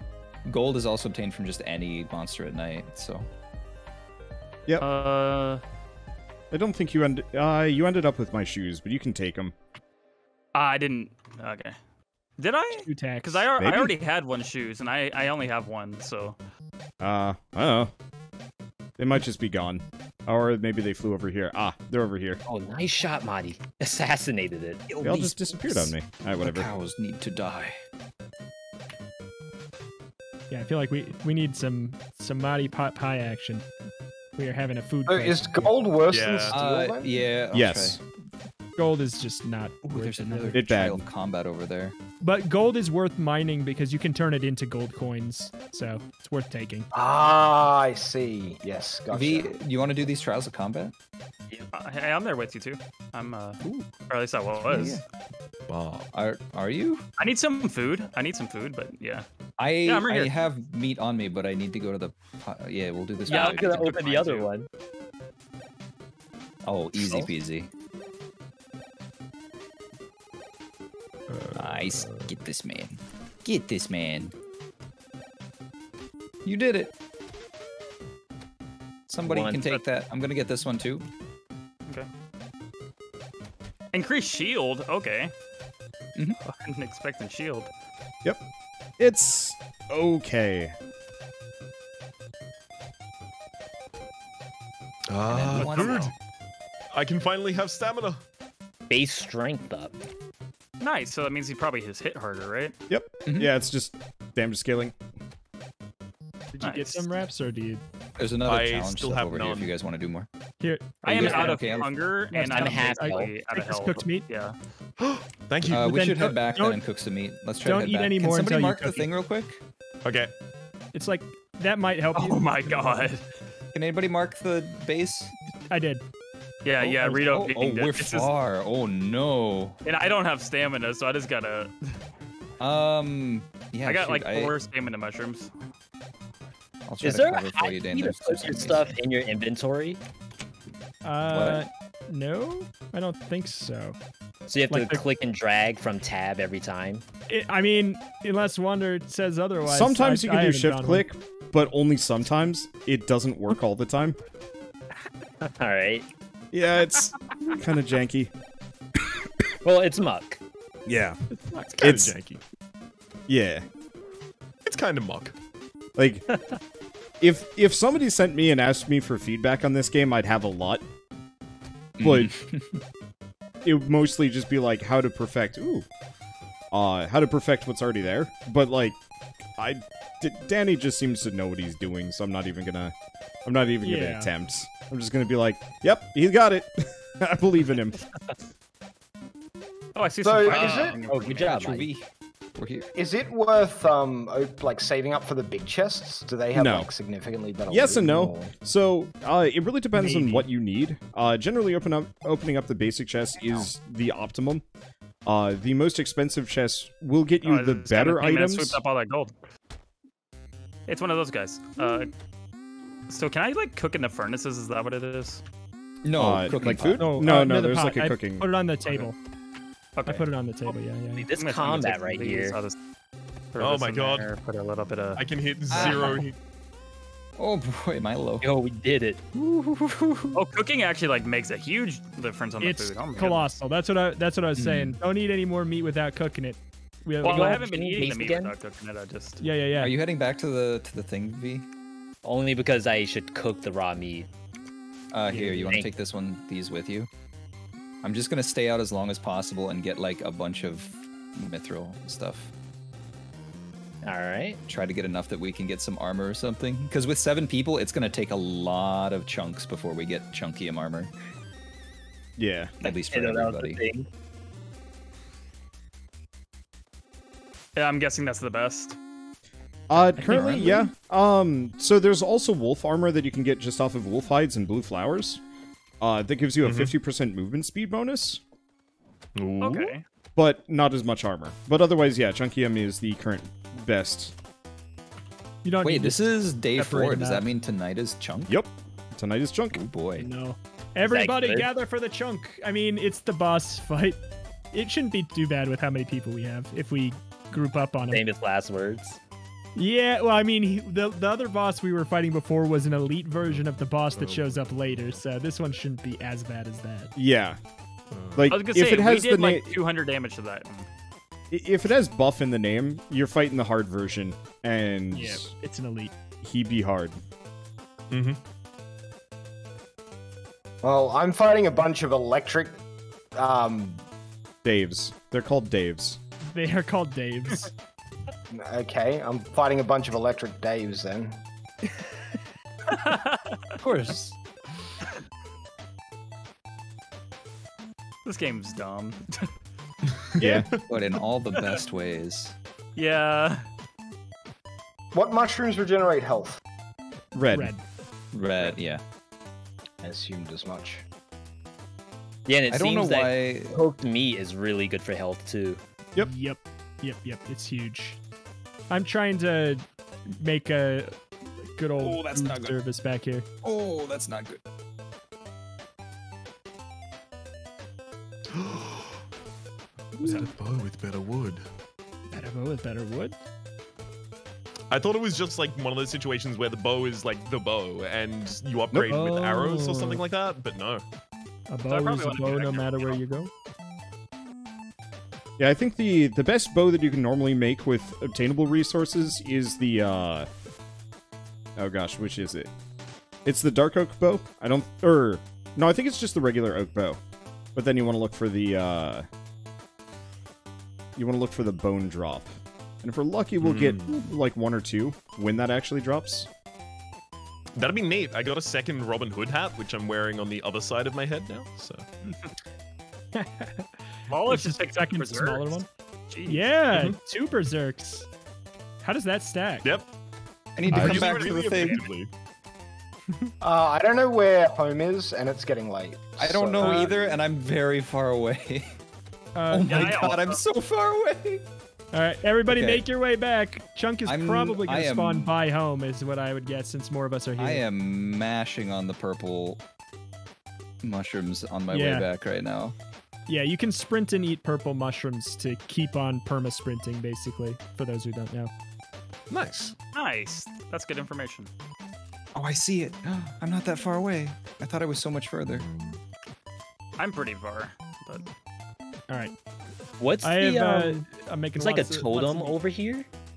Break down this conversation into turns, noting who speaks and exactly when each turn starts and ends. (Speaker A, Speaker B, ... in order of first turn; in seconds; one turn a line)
Speaker A: 0.4-3.3
Speaker B: 4.8-5.6
Speaker C: 6.5-9.5
Speaker B: 10.5-11.8
Speaker B: 12.4-16.4
Speaker D: 12.8-13.5
Speaker C: 13.6-13.9
Speaker C: 17.0-17.9
Speaker C: 19.0-22.4
Speaker E: 22.4-24.9
Speaker A: 24.9-27.8
Speaker C: 25.0-26.7
Speaker D: 30.5-33.6
Speaker D: 34.4-35.7
Speaker F: 35.1-37.3
Speaker G: 36.1-36.6
Speaker A: 36.5-38.0
Speaker C: 37.5-38.0
Speaker D: 38.8-40.6
Speaker A: 39.8-42.0
Speaker C: 40.5-41.0
Speaker D: 42.2-46.9
Speaker F: 46.9-49.5
Speaker A: 49.1-50.9
Speaker B: 51.7-55.0
Speaker A: 53.6-53.9
Speaker A: 54.6-55.0
Speaker G: 55.7-56.1
Speaker A: 56.1-57.0
Speaker B: 57.2-59.2
Speaker A: 59.6-64.0
Speaker B: 59.8-60.3
Speaker B: 63.3-64.5
Speaker E: 63.3-64.7
Speaker A: 66.6-67.7
Speaker E: 67.0-67.3
Speaker G: 71.3-72.3
Speaker A: 71.5-74.3
Speaker A: 76.4-76.9
Speaker A: 79.1-81.0
Speaker E: 79.2-79.7
Speaker B: 83.9-85.3
Speaker B: 86.4-87.7
Speaker C: 89.0-90.7
Speaker G: 95.1-96.1
Speaker A: 95.2-96.1
Speaker B: 95.5-96.1
Speaker G: 96.9-98.2
Speaker E: 98.9-100.0
Speaker B: 100.8-102.7
Speaker C: 102.9-104.9
Speaker A: 103.2-103.5
Speaker D: 106.5-107.8
Speaker B: 106.6-107.1
Speaker A: 108.2-110.3
Speaker G: 108.5-109.7
Speaker D: 110.6-111.8
Speaker B: 111.0-114.5
Speaker A: 111.1-112.0
Speaker D: 112.3-114.2
Speaker E: 112.3-113.3
Speaker G: 115.0-116.2
Speaker A: 115.6-119.6
Speaker D: 115.8-116.8
Speaker D: 117.6-119.1
Speaker G: 120.0-120.3
Speaker D: 120.9-123.1
Speaker B: 122.1-123.2
Speaker A: 123.7-125.3
Speaker D: 125.7-126.0
Speaker B: 126.6-128.3
Speaker A: 126.8-129.8
Speaker B: 129.8-131.7
Speaker A: 132.6-134.6
Speaker B: 133.8-135.5
Speaker A: 136.8-139.0
Speaker E: 137.0-140.0
Speaker D: 141.0-143.9
Speaker A: 141.3-141.7
Speaker E: 144.5-147.0
Speaker D: 144.7-145.0
Speaker D: 147.3-151.0
Speaker C: 149.7-154.2
Speaker E: 155.4-156.1
Speaker C: 156.5-158.3
Speaker E: 159.6-160.4
Speaker C: 160.8-161.2
Speaker G: 161.6-162.4
Speaker C: 161.8-162.1
Speaker C: 163.3-163.6
Speaker G: 164.6-165.3
Speaker C: 165.9-166.2
Speaker E: 166.3-166.6
Speaker C: 167.2-170.8
Speaker A: 172.0-172.8
Speaker C: 172.0-172.3
Speaker C: 173.6-175.8
Speaker C: 176.7-179.0
Speaker C: 179.6-182.9
Speaker C: 183.4-188.0
Speaker D: 183.8-184.3
Speaker B: 189.9-191.7
Speaker F: 190.2-191.1
Speaker A: 190.5-192.9
Speaker E: 191.1-191.8
Speaker F: 192.9-198.5
Speaker C: 196.5-196.9
Speaker C: 197.7-204.6
Speaker D: 199.9-200.5
Speaker C: 205.2-208.8
Speaker B: 207.4-209.3
Speaker B: 210.9-212.1
Speaker B: 213.1-215.4
Speaker A: 216.0-217.2
Speaker C: 216.1-218.5
Speaker D: 217.0-219.1
Speaker B: 218.8-219.1
Speaker B: 220.0-220.7
Speaker D: 220.1-221.2
Speaker E: 221.2-222.6
Speaker B: 221.3-222.8
Speaker B: 223.5-225.2
Speaker G: 223.6-224.3
Speaker G: 225.2-226.3
Speaker A: 225.7-226.3
Speaker A: 227.4-228.4
Speaker E: 228.4-230.3
Speaker B: 230.3-233.5
Speaker D: 232.6-237.7
Speaker A: 234.6-235.0
Speaker E: 237.2-238.5
Speaker B: 237.2-239.4
Speaker D: 239.4-239.9
Speaker A: 239.7-241.6
Speaker E: 242.2-244.3
Speaker A: 245.1-247.1
Speaker E: 245.3-245.9
Speaker A: 248.0-252.5
Speaker E: 254.0-254.6
Speaker A: 254.7-261.1
Speaker C: 262.4-262.7
Speaker A: 262.8-263.8
Speaker E: 262.8-264.1
Speaker B: 267.8-268.9
Speaker C: 269.9-275.4
Speaker D: 270.2-270.9
Speaker A: 270.4-270.6
Speaker C: 276.0-278.4
Speaker G: 276.6-276.9
Speaker G: 279.4-279.9
Speaker B: 279.6-280.0
Speaker C: 280.4-284.3
Speaker D: 285.6-287.5
Speaker A: 285.8-288.6
Speaker C: 288.5-289.8
Speaker A: 289.7-290.3
Speaker D: 290.2-294.2
Speaker E: 291.0-291.7
Speaker D: 294.7-298.2
Speaker E: 298.1-299.2
Speaker D: 299.8-307.1
Speaker G: 304.1-305.2
Speaker C: 307.1-307.6
Speaker G: 308.1-308.6
Speaker C: 308.4-309.7
Speaker B: 308.5-310.9
Speaker C: 311.5-315.5
Speaker D: 315.1-316.1
Speaker C: 316.4-317.2
Speaker G: 318.1-318.4
Speaker F: 320.8-322.8
Speaker F: 323.3-324.0
Speaker C: 324.6-326.2
Speaker D: 326.4-327.7
Speaker F: 328.5-331.4
Speaker B: 332.9-333.6
Speaker A: 333.8-334.3
Speaker B: 338.2-339.5
Speaker G: 340.1-341.2
Speaker C: 340.4-340.7
Speaker A: 340.9-342.5
Speaker B: 342.9-343.7
Speaker F: 345.1-346.6
Speaker C: 347.3-347.7
Speaker D: 347.5-347.8
Speaker A: 348.3-349.0
Speaker F: 350.0-351.0
Speaker E: 352.4-355.8
Speaker A: 352.7-353.8
Speaker D: 356.2-358.2
Speaker D: 358.9-363.4
Speaker A: 362.0-362.8
Speaker A: 363.6-364.6
Speaker G: 368.5-369.2
Speaker G: 370.2-371.6
Speaker D: 370.2-370.5
Speaker D: 372.3-373.4
Speaker G: 374.9-381.0
Speaker D: 379.1-380.2
Speaker D: 381.7-383.5
Speaker B: 381.9-383.2
Speaker C: 385.6-390.5
Speaker C: 391.8-392.7
Speaker C: 393.4-397.2
Speaker C: 397.7-399.2
Speaker C: 401.1-406.5
Speaker G: 403.6-404.2
Speaker G: 407.8-412.0
Speaker B: 412.3-412.5
Speaker D: 413.3-415.9
Speaker B: 414.3-416.7
Speaker D: 416.5-418.3
Speaker G: 416.9-417.2
Speaker D: 419.0-419.9
Speaker G: 419.8-420.1
Speaker A: 420.8-422.0
Speaker G: 420.9-422.3
Speaker C: 420.9-421.3
Speaker B: 421.3-422.1
Speaker F: 423.6-427.2
Speaker A: 426.4-428.9
Speaker D: 426.8-427.1
Speaker D: 429.5-430.4
Speaker A: 429.7-431.6
Speaker B: 429.8-430.6
Speaker D: 432.1-437.8
Speaker A: 432.7-433.0
Speaker A: 434.2-435.5
Speaker A: 437.6-439.8
Speaker A: 441.0-442.9
Speaker D: 441.9-442.3
Speaker D: 443.5-448.7
Speaker G: 449.5-449.9
Speaker B: 450.1-451.7
Speaker A: 452.5-455.9
Speaker G: 455.7-456.2
Speaker B: 457.2-458.5
Speaker D: 459.3-459.5
Speaker E: 460.2-463.3
Speaker D: 460.4-462.8